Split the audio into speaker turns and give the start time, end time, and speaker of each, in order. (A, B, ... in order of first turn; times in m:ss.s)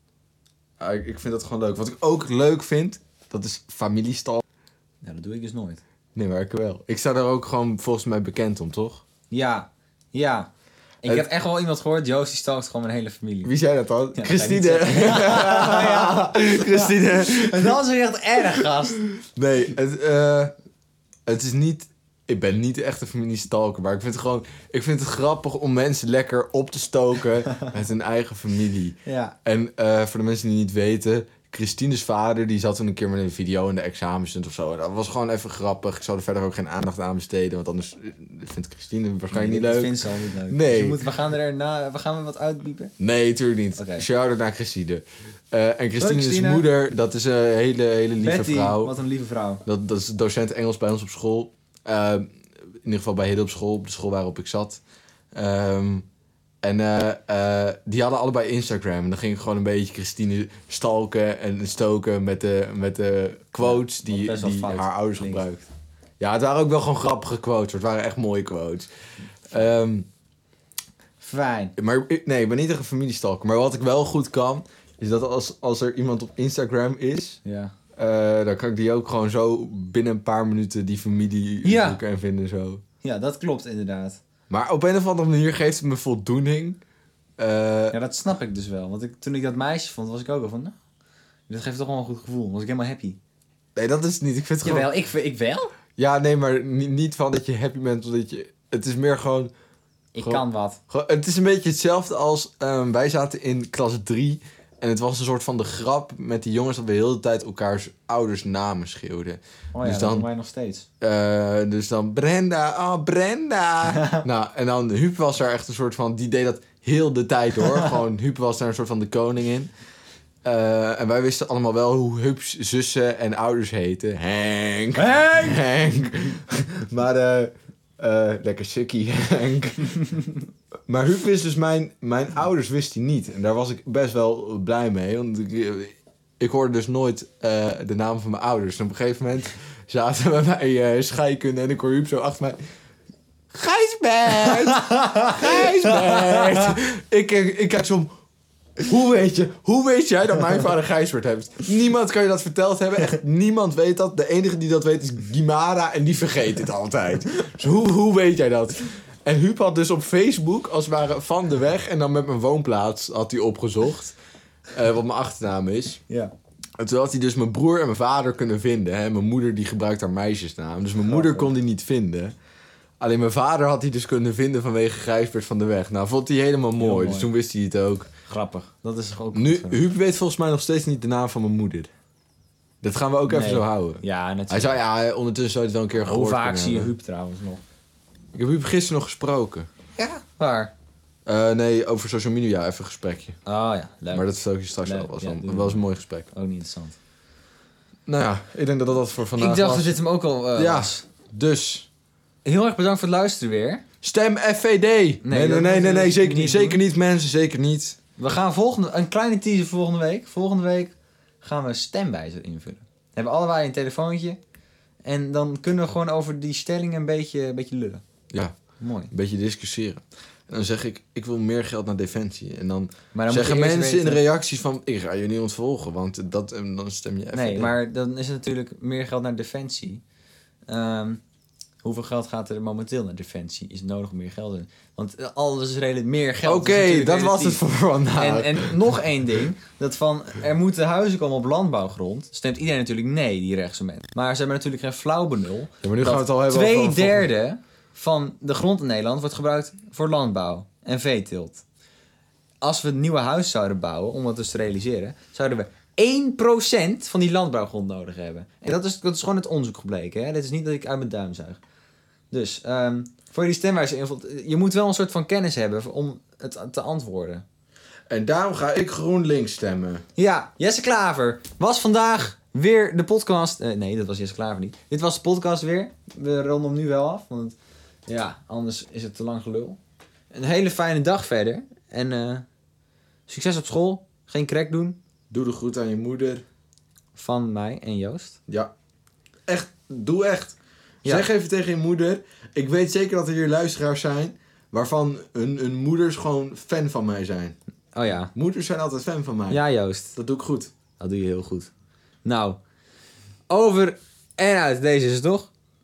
0:00.8-0:04.4 A
0:05.0-0:05.8 B
0:06.2-0:09.0 A
0:09.3-0:10.5 B
0:11.0-0:13.5 B
0:13.4-0:17.8 A
0:14.2-0:19.0 B
0:18.5-0:20.5 A
0:21.3-0:41.0 A
0:29.1-0:29.4 B
0:39.3-0:42.9 B
0:43.0-0:48.9 A
0:43.8-0:44.1 B
0:46.0-0:46.6 B
0:48.2-0:49.6 B
0:49.6-0:54.8 A
0:55.3-0:56.1 A
0:56.6-1:05.7 A
1:03.6-1:05.4 B
1:06.2-1:08.9 A
1:09.5-1:10.1 A
1:11.2-1:11.7 B
1:11.8-1:17.4 A
1:17.4-1:17.7 B
1:18.0-1:22.8 A
1:21.6-1:22.0 B
1:23.0-1:24.2 B
1:24.5-1:26.8 A
1:27.4-1:28.0 A
1:27.9-1:30.7 B
1:31.5-1:33.2 B
1:33.8-1:34.9 A
1:34.6-1:35.8 B
1:36.0-1:39.5 A
1:40.1-1:40.8 B
1:40.2-1:50.3 A
1:49.7-1:50.9 B
1:51.0-1:59.7 A
1:54.0-1:54.2 B
2:00.4-2:10.2 A
2:05.0-2:05.6 B
2:10.9-2:22.6 A
2:23.5-2:28.1 A
2:24.7-2:26.5 B
2:28.8-2:44.2 A
2:44.7-2:46.0 A
2:46.8-2:52.3 A
2:51.0-2:51.5 B
2:53.0-2:58.1 A
2:56.8-2:57.3 B
2:58.3-2:59.8 B
2:59.3-3:01.9 A
3:02.8-3:06.9 A
3:03.3-3:04.8 B
3:06.0-3:07.6 B
3:08.4-3:09.7 A
3:10.0-3:10.7 B
3:11.3-3:13.4 A
3:13.4-3:14.3 B
3:14.1-3:16.3 A
3:14.8-3:15.8 B
3:16.3-3:17.0 B
3:18.1-3:20.0 A
3:19.4-3:21.0 B
3:20.6-3:21.9 A
3:22.4-3:23.8 B
3:24.0-3:28.0 A
3:25.2-3:26.8 B
3:28.2-3:34.4 B
3:35.0-3:38.0 B
3:38.8-3:39.1 B
3:39.1-3:47.8 A
3:43.1-3:44.2 B
3:47.3-3:50.0 B
3:50.7-3:51.2 B
3:51.8-3:57.6 B
3:56.4-3:58.9 A
3:58.2-4:11.6 B
4:05.8-4:07.3 A
4:12.6-4:21.6 B
4:22.3-4:27.4 B
4:28.1-4:30.0 A
4:30.2-4:37.6 B
4:38.1-4:39.8 B
4:40.3-4:42.5 B
4:43.3-4:45.0 B
4:45.3-4:46.4 A
4:47.2-4:48.4 B
4:49.5-4:57.6 A
4:58.0-4:58.3 B
4:58.3-4:59.6 A
4:59.5-5:00.1 B
5:00.1-5:00.7 A
5:01.0-5:01.7 B
5:02.2-5:02.6 B
5:03.5-5:05.5 B